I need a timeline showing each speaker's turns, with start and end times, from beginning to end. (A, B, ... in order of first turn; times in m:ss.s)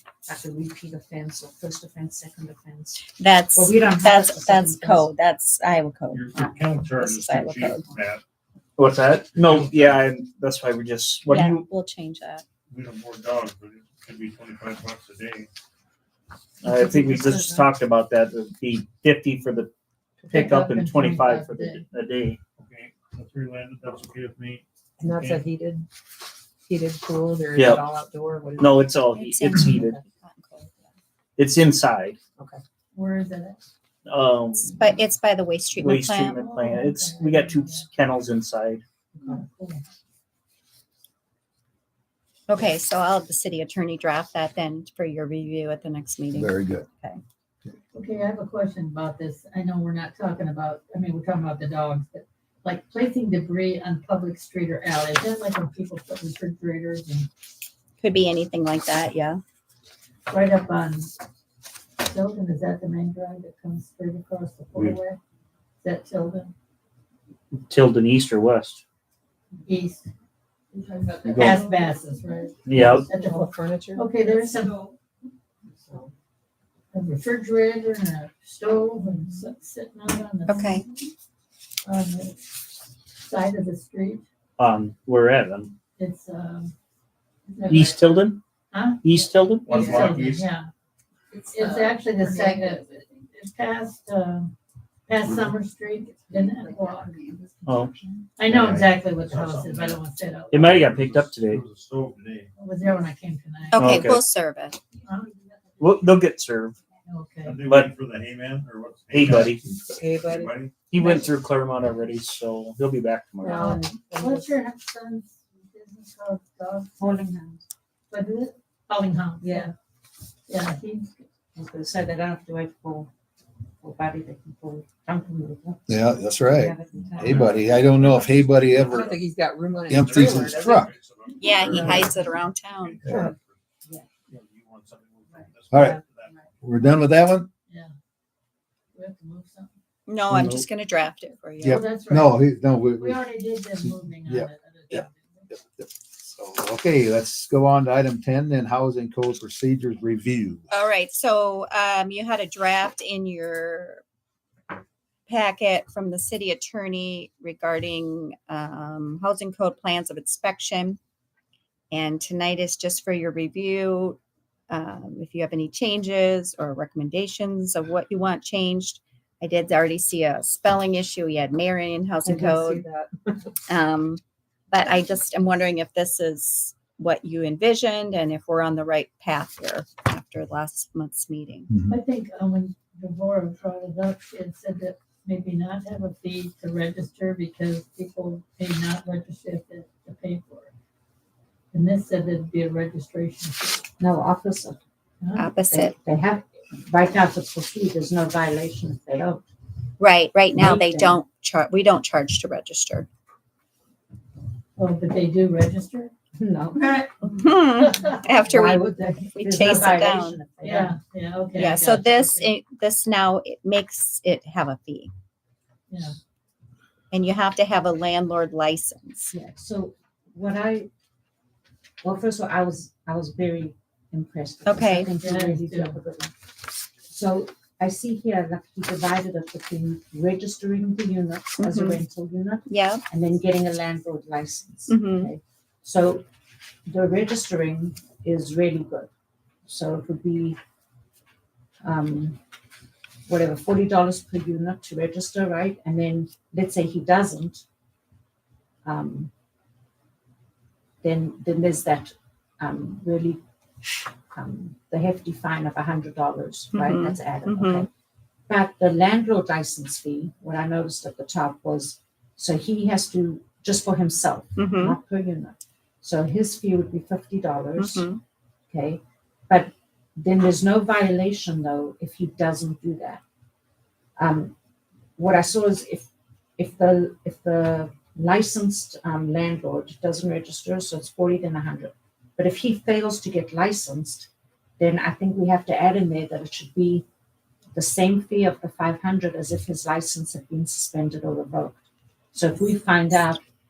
0:00.3-0:05.1 A
0:03.2-0:07.9 B
0:06.1-0:08.2 C
0:08.8-0:11.6 D
0:09.3-0:10.1 C
0:11.3-0:12.4 B
0:12.7-0:15.5 C
0:16.6-0:17.7 A
0:16.6-0:19.7 D
0:20.3-0:22.4 D
0:20.3-0:21.9 E
0:22.6-0:25.4 C
0:25.0-0:25.9 F
0:26.7-0:29.0 F
0:27.5-0:27.9 D
0:28.6-0:30.0 D
0:29.1-0:30.9 B
0:29.5-0:30.0 F
0:31.4-0:32.2 D
0:32.9-0:33.6 E
0:34.1-0:34.7 D
0:34.7-0:36.4 B
0:35.8-0:38.8 D
0:36.3-0:37.9 E
0:39.2-0:39.8 E
0:42.5-0:47.2 B
0:46.3-0:46.9 G
0:47.9-0:57.3 E
0:58.0-0:59.4 B
1:00.3-1:01.1 E
1:02.0-1:05.2 E
1:05.8-1:06.5 E
1:07.7-1:08.8 D
1:09.7-1:10.1 E
1:10.8-1:12.0 F
1:11.3-1:14.8 E
1:11.3-1:11.6 D
1:11.4-1:11.7 B
1:12.7-1:13.1 D
1:12.7-1:14.7 F
1:16.9-1:20.8 E
1:20.5-1:20.9 B
1:21.8-1:22.5 E
1:23.2-1:24.2 E
1:24.6-1:25.7 D
1:26.0-1:26.7 E
1:27.5-1:28.0 E
1:27.7-1:28.4 D
1:28.7-1:29.1 E
1:29.0-1:29.8 D
1:29.6-1:30.5 C
1:29.7-1:30.7 E
1:31.3-1:34.5 E
1:31.6-1:32.9 F
1:35.1-1:37.3 E
1:36.1-1:38.2 F
1:37.6-1:37.9 D
1:38.4-1:40.8 E
1:38.5-1:38.8 G
1:38.7-1:42.5 C
1:40.5-1:41.6 D
1:42.6-1:43.9 E
1:43.7-1:44.8 B
1:43.8-1:44.2 D
1:45.0-1:45.4 E
1:45.8-1:46.8 D
1:47.1-1:47.6 E
1:47.4-1:49.6 C
1:49.1-1:49.6 D
1:49.7-1:50.6 F
1:50.2-1:50.9 C
1:50.9-1:53.6 D
1:53.4-1:57.1 E
1:53.5-1:54.5 F
1:57.0-1:57.6 A
1:58.1-1:59.7 E
1:59.4-1:59.7 A
2:00.5-2:01.2 E
2:01.6-2:03.1 A
2:03.8-2:05.9 A
2:05.9-2:09.2 G
2:06.4-2:07.8 A
2:07.2-2:13.6 C
2:08.8-2:10.6 F
2:09.9-2:10.9 G
2:11.4-2:13.1 B
2:11.7-2:12.0 F
2:14.3-2:16.4 C
2:15.3-2:16.5 A
2:15.7-2:16.0 G
2:16.6-2:17.5 G
2:18.9-2:19.7 E
2:20.1-2:21.8 B
2:20.3-2:20.6 G
2:21.6-2:22.4 E
2:21.6-2:23.2 G
2:23.0-2:25.5 E
2:23.8-2:30.7 G
2:30.7-2:34.0 B
2:35.3-2:41.0 B
2:41.9-2:44.2 B
2:44.7-2:52.8 B
2:52.3-2:53.1 F
2:53.7-3:01.7 B
3:01.7-3:02.0 G
3:01.9-3:10.7 E
3:11.7-3:13.8 E
3:14.0-3:14.8 A
3:15.2-3:15.5 E
3:15.4-3:15.9 B
3:15.7-3:19.4 A
3:20.0-3:23.1 B
3:20.5-3:21.2 A
3:24.8-3:26.1 E
3:26.4-3:27.1 A
3:27.2-3:30.4 B
3:27.8-3:28.2 E
3:28.4-3:31.0 A
3:30.6-3:32.5 E
3:31.6-3:35.1 B
3:35.9-3:36.2 E
3:37.1-3:39.3 B
3:39.3-3:40.9 A
3:42.0-3:46.3 A
3:44.7-3:45.1 B
3:45.2-3:46.0 E
3:47.1-3:56.2 A
3:51.6-3:52.0 B
3:52.7-3:53.0 B
3:54.9-3:55.3 B
3:56.9-3:59.1 A
3:59.7-4:00.6 A
4:01.8-4:02.4 A
4:03.3-4:07.6 A
4:08.8-4:09.3 A
4:11.0-4:13.4 A
4:14.3-4:17.9 A
4:16.7-4:17.9 B
4:18.5-4:28.1 A
4:24.6-4:25.0 B
4:27.8-4:28.2 B
4:28.7-4:33.2 A
4:34.2-4:34.5 A
4:35.2-4:47.1 A
4:47.7-4:51.8 A
4:52.3-4:53.4 A